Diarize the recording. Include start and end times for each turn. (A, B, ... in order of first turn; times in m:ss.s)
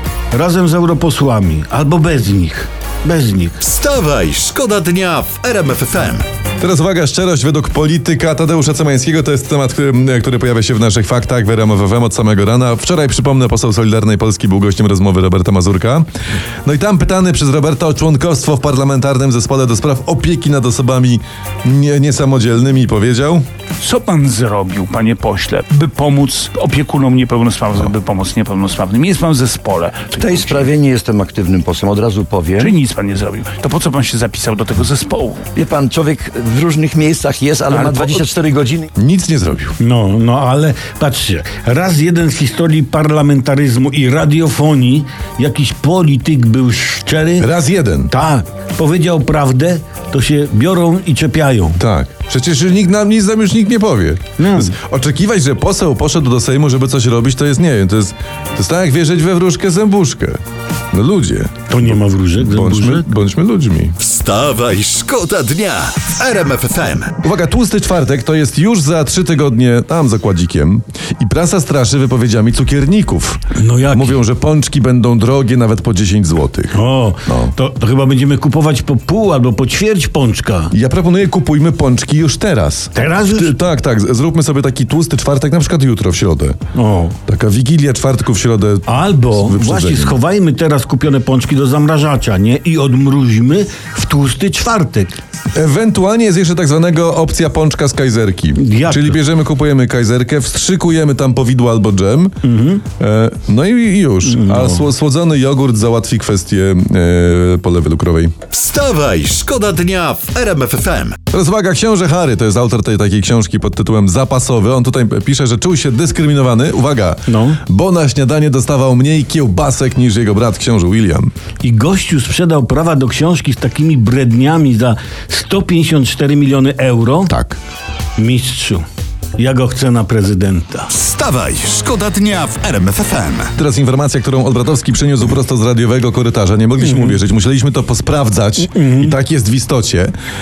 0:00.3-0:03.6 A
0:03.6-0:06.2 B
0:06.6-0:16.1 C
0:16.6-0:23.4 C
0:23.8-0:30.7 D
0:30.2-0:32.7 E
0:32.5-0:35.5 D
0:35.6-0:38.9 E
0:37.7-0:38.3 D
0:39.0-0:39.7 C
0:39.8-0:47.5 A
0:47.4-0:48.1 C
0:48.1-0:51.8 A
0:51.8-1:00.4 C
0:54.4-0:54.8 A
1:00.9-1:04.0 C
1:01.7-1:03.1 A
1:04.0-1:07.2 B
1:07.2-1:17.5 C
1:13.5-1:14.2 A
1:16.7-1:20.7 A
1:20.7-1:26.6 C
1:22.9-1:23.5 A
1:26.7-1:27.2 A
1:27.3-1:30.2 C
1:28.9-1:35.1 A
1:35.5-1:42.4 C
1:38.6-1:39.2 A
1:42.4-1:42.8 A
1:43.0-1:48.3 C
1:44.2-1:44.9 A
1:48.5-1:51.2 B
1:51.3-2:01.3 C
1:57.3-1:57.6 A
2:01.6-2:07.3 A
2:07.3-2:07.6 C
2:08.2-2:08.8 A
2:09.4-2:10.9 A
2:10.9-2:13.5 B
2:13.6-2:20.1 C
2:16.8-2:17.2 A
2:18.7-2:19.2 A